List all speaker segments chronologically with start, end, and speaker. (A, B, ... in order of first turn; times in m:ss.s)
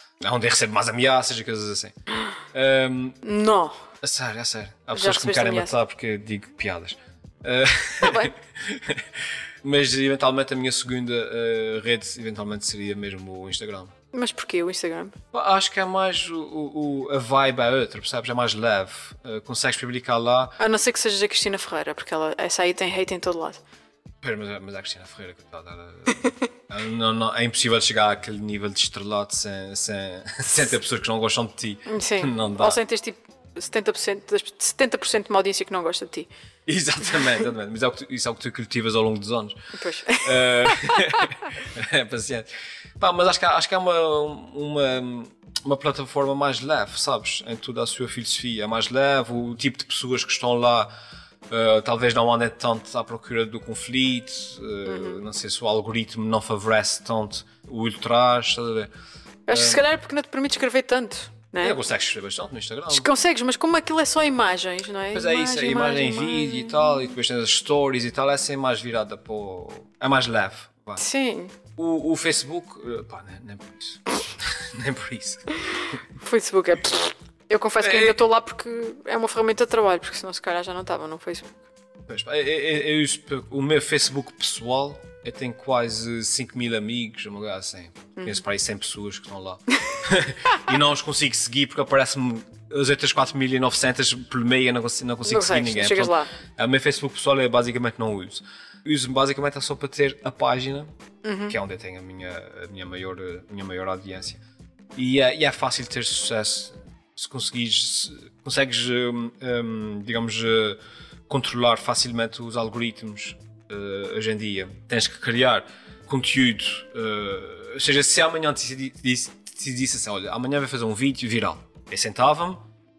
0:00.2-0:02.0 A
0:02.5-0:03.2 A
0:03.2-0:03.8 B
0:04.0-0:13.9 A
0:04.9-0:05.7 B
0:08.0-0:08.3 B
0:14.1-0:15.1 B
0:15.3-0:20.6 A
0:20.6-0:23.6 B
0:24.2-0:32.8 A
0:31.9-0:36.3 B
0:36.6-0:39.5 A
0:39.8-0:41.3 B
0:40.2-0:50.9 A
0:51.5-0:58.9 A
0:54.8-0:55.2 B
0:59.5-1:01.8 B
0:59.5-0:59.8 A
1:01.6-1:03.1 A
1:02.9-1:06.9 B
1:05.1-1:11.0 A
1:11.0-1:11.5 B
1:11.8-1:16.0 A
1:16.2-1:21.6 B
1:17.8-1:18.2 A
1:22.1-1:40.9 A
1:35.3-1:36.3 B
1:41.2-1:41.5 B
1:41.5-1:44.4 A
1:45.0-2:02.6 A